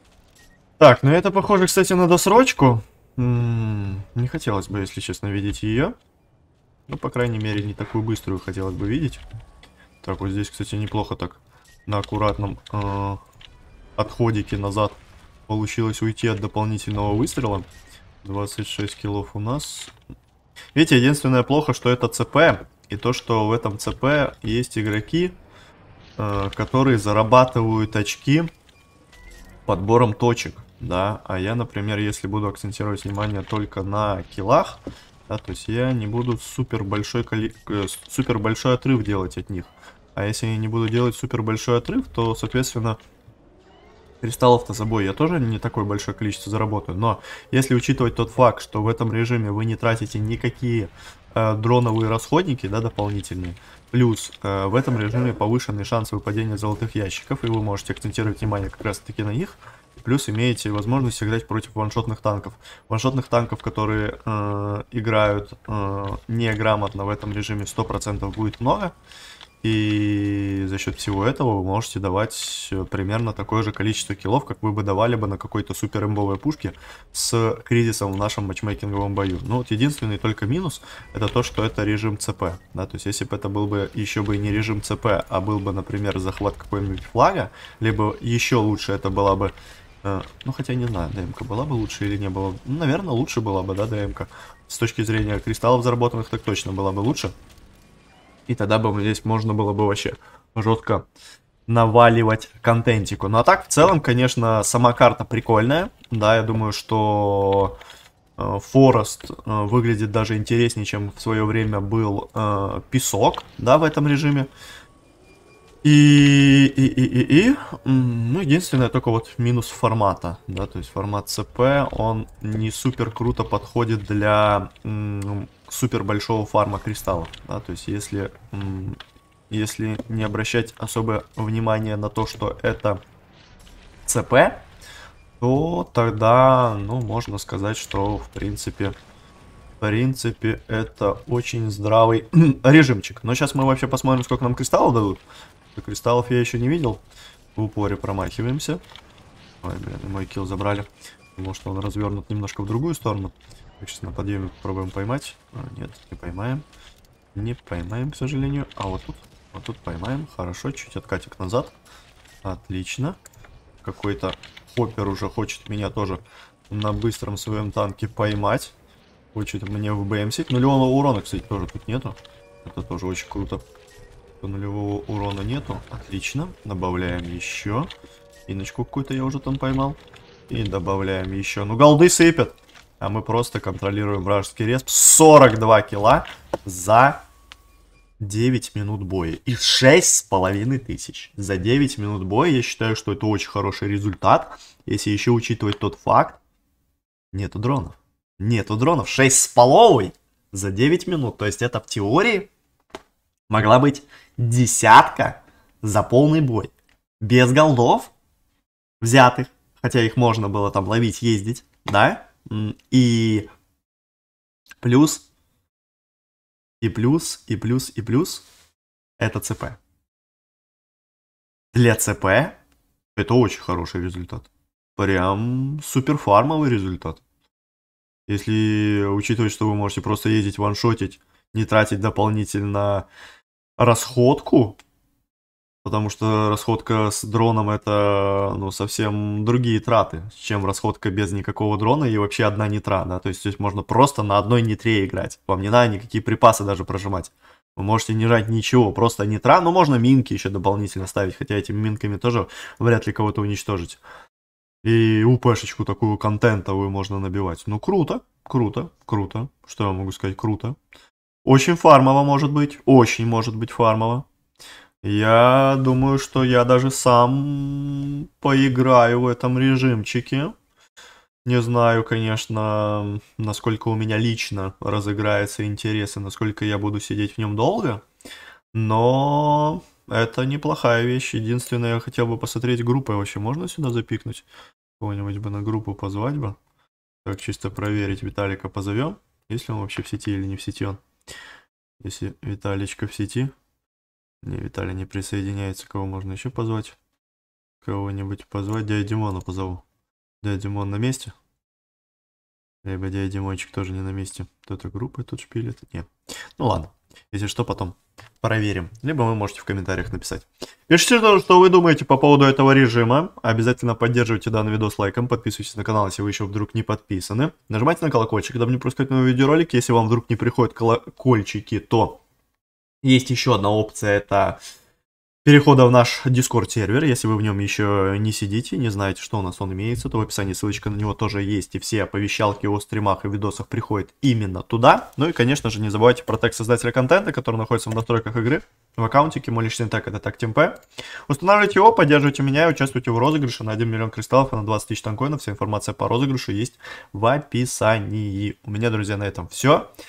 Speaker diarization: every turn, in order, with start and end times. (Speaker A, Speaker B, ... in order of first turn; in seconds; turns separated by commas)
Speaker A: 0.8-5.9, Speaker A: 6.9-9.2, Speaker A: 10.0-13.2, Speaker A: 14.0-17.7, Speaker A: 18.2-19.9, Speaker A: 20.8-25.4, Speaker A: 26.2-28.5, Speaker A: 29.7-43.0, Speaker A: 44.2-68.9, Speaker A: 69.6-97.3, Speaker A: 98.5-101.1, Speaker A: 101.7-107.8, Speaker A: 108.4-114.5, Speaker A: 115.8-129.0, Speaker A: 129.5-133.0, Speaker A: 134.1-134.6, Speaker A: 135.4-139.0, Speaker A: 139.8-145.2, Speaker A: 145.8-147.0, Speaker A: 147.6-148.8, Speaker A: 149.6-156.7, Speaker A: 157.3-161.7, Speaker A: 162.4-163.2, Speaker A: 163.8-168.8, Speaker A: 169.3-173.6, Speaker A: 174.4-177.9, Speaker A: 178.5-187.2, Speaker A: 188.2-196.4, Speaker A: 197.3-202.5, Speaker A: 203.5-208.1, Speaker A: 209.0-213.5, Speaker A: 214.8-215.2, Speaker A: 216.8-218.4, Speaker A: 219.2-219.8, Speaker A: 221.7-222.6, Speaker A: 223.2-227.2, Speaker A: 228.3-233.1, Speaker A: 233.8-234.8, Speaker A: 235.8-254.0, Speaker A: 254.8-260.8, Speaker A: 261.4-264.3, Speaker A: 265.0-270.5, Speaker A: 271.4-278.0, Speaker A: 278.7-284.5, Speaker A: 285.0-286.6, Speaker A: 287.2-291.0, Speaker A: 292.0-293.5, Speaker A: 294.4-297.0, Speaker A: 297.8-299.8, Speaker A: 300.4-301.3, Speaker A: 302.8-322.2, Speaker A: 323.0-324.6, Speaker A: 325.4-340.8, Speaker A: 341.3-349.9